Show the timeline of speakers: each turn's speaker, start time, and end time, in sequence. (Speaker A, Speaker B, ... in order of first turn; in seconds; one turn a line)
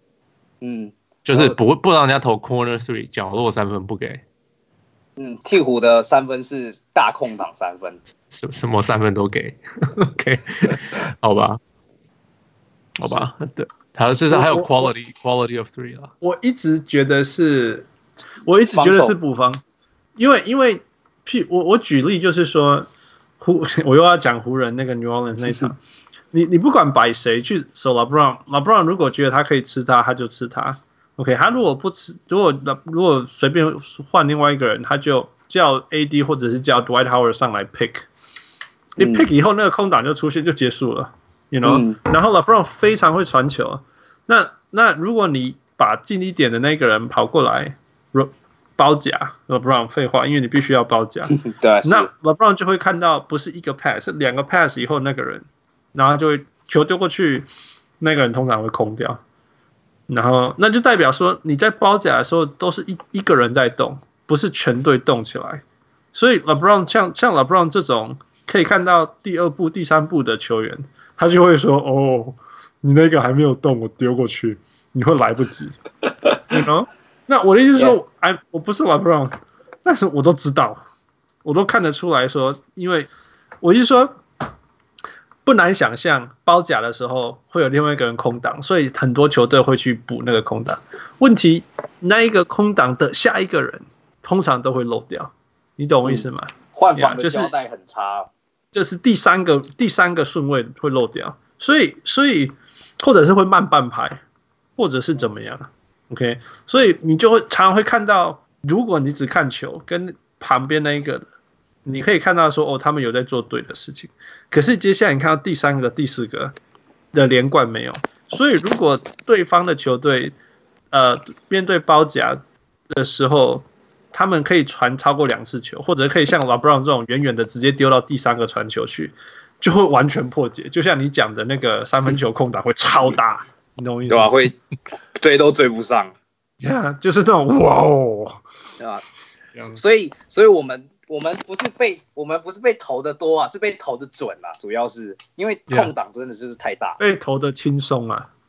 Speaker A: 0.6-1.6
Speaker B: 1.2-4.2
Speaker A: 5.2-8.0
Speaker B: 8.3-11.6
Speaker B: 13.0-16.1
Speaker C: 14.3-14.9
Speaker C: 16.2-17.9
Speaker C: 18.4-19.6
Speaker A: 18.7-19.1
Speaker C: 20.1-22.9
Speaker C: 23.4-25.8
Speaker C: 26.3-38.0
Speaker C: 39.0-57.5
Speaker A: 39.0-39.3
Speaker A: 41.6-42.0
Speaker A: 51.3-52.1
Speaker C: 58.0-59.2
Speaker C: 60.1-65.6
Speaker C: 66.1-75.8
Speaker C: 76.5-80.8
Speaker C: 81.4-83.1
Speaker C: 83.6-84.2
Speaker C: 85.4-97.5
Speaker A: 96.0-98.3
Speaker C: 98.7-104.2
Speaker C: 104.8-111.2
Speaker C: 111.8-116.5
Speaker C: 117.1-120.3
Speaker C: 120.9-134.3
Speaker A: 134.1-134.6
Speaker A: 135.2-136.1
Speaker C: 136.6-138.4
Speaker A: 138.8-139.0
Speaker A: 139.6-147.0
Speaker C: 147.0-148.3